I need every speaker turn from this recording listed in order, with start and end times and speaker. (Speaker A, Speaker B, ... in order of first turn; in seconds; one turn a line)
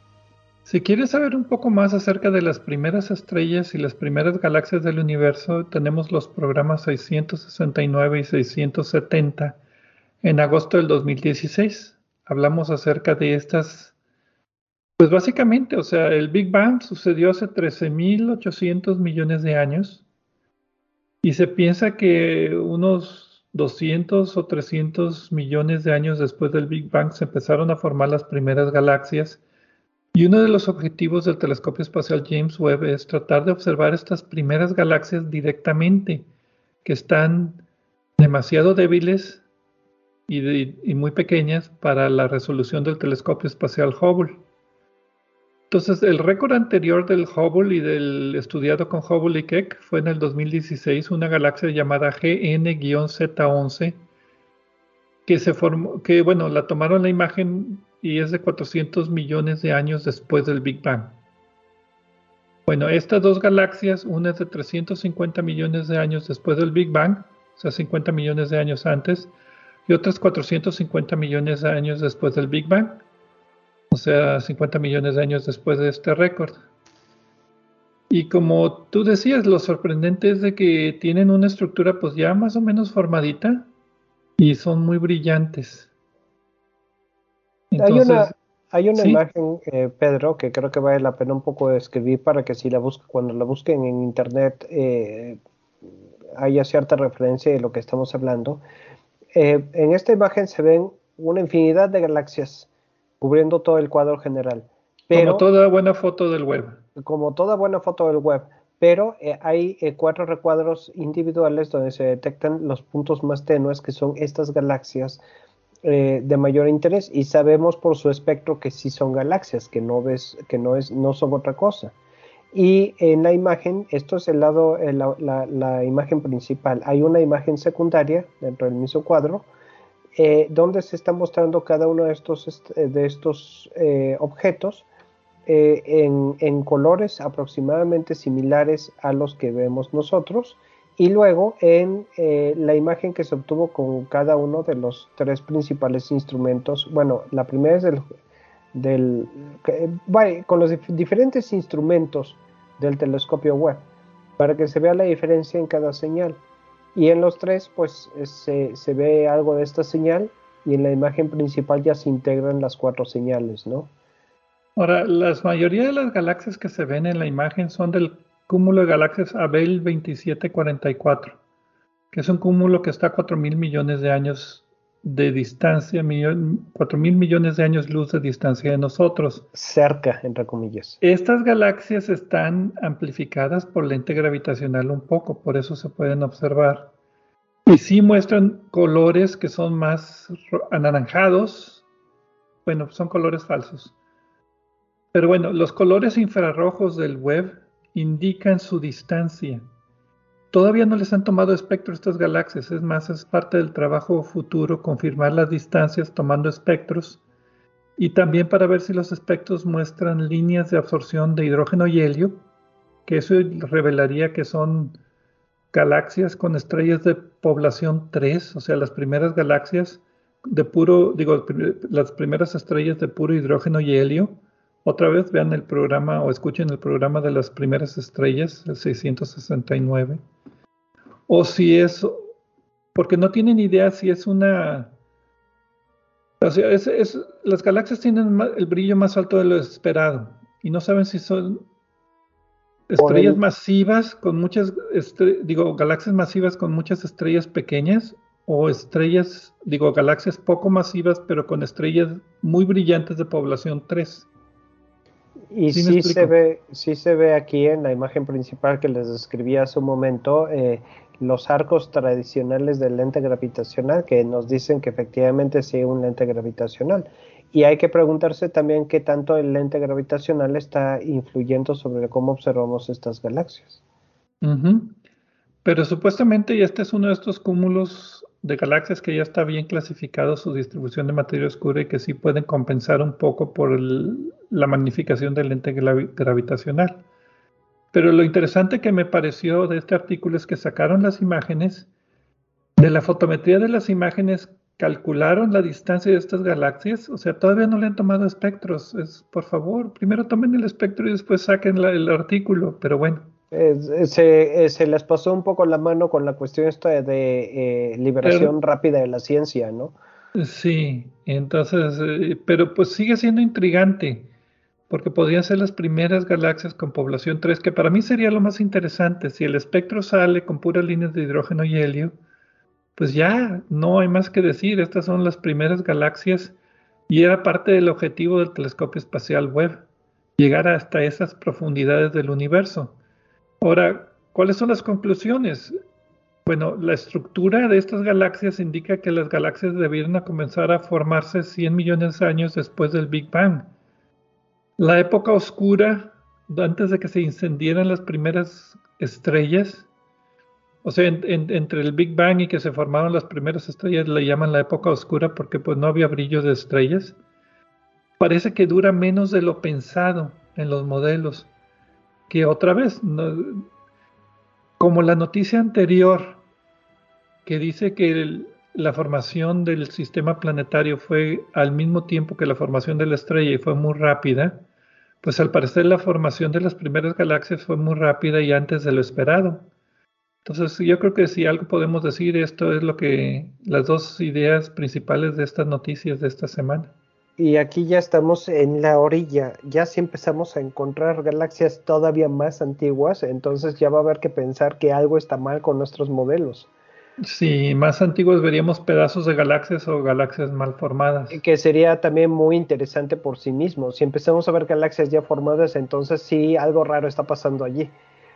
Speaker A: 0.6-9.6
Speaker A: 10.2-13.9
Speaker A: 15.0-20.0
Speaker A: 21.2-29.4
Speaker A: 30.1-36.3
Speaker A: 36.8-37.6
Speaker A: 38.2-39.4
Speaker A: 40.3-44.4
Speaker A: 45.7-54.0
Speaker A: 55.2-61.1
Speaker A: 62.7-69.3
Speaker A: 69.9-73.0
Speaker A: 73.9-76.6
Speaker A: 78.1-83.7
Speaker A: 84.4-85.9
Speaker A: 87.7-88.3
Speaker B: 87.8-95.4
Speaker A: 88.9-89.2
Speaker B: 96.3-98.6
Speaker B: 99.3-102.7
Speaker B: 103.2-105.4
Speaker A: 105.1-106.8
Speaker B: 107.0-115.2
Speaker B: 115.8-121.9
Speaker B: 122.5-129.5
Speaker B: 130.1-134.8
Speaker B: 135.4-148.0
Speaker B: 148.7-153.8
Speaker B: 154.4-156.4
Speaker B: 156.9-163.9
Speaker A: 164.8-171.4
Speaker A: 172.1-179.4
Speaker B: 179.5-181.0
Speaker A: 181.0-186.9
Speaker A: 187.7-191.8
Speaker A: 192.6-193.9
Speaker A: 195.1-199.7
Speaker A: 200.5-207.2
Speaker A: 208.0-212.4
Speaker A: 213.1-215.0
Speaker A: 215.7-230.2
Speaker A: 231.3-232.3
Speaker A: 232.9-234.9
Speaker A: 236.4-241.6
Speaker A: 242.9-254.3
Speaker B: 243.0-243.4
Speaker B: 255.5-273.8
Speaker A: 255.7-256.3
Speaker A: 274.4-275.0
Speaker A: 275.6-287.0
Speaker A: 287.9-291.9
Speaker A: 292.8-303.3
Speaker B: 303.5-309.9
Speaker A: 308.2-308.5
Speaker A: 310.3-314.3
Speaker A: 314.9-322.1
Speaker A: 322.9-326.5
Speaker A: 327.1-329.8
Speaker A: 330.4-333.0
Speaker A: 333.6-335.7
Speaker A: 336.4-343.7
Speaker A: 344.8-349.9
Speaker A: 350.8-357.1
Speaker A: 358.2-361.5
Speaker A: 362.3-363.6
Speaker A: 364.8-366.4
Speaker A: 367.4-374.6
Speaker A: 375.2-379.7
Speaker A: 380.4-386.9
Speaker B: 387.4-396.7
Speaker A: 397.2-401.4
Speaker B: 401.3-407.9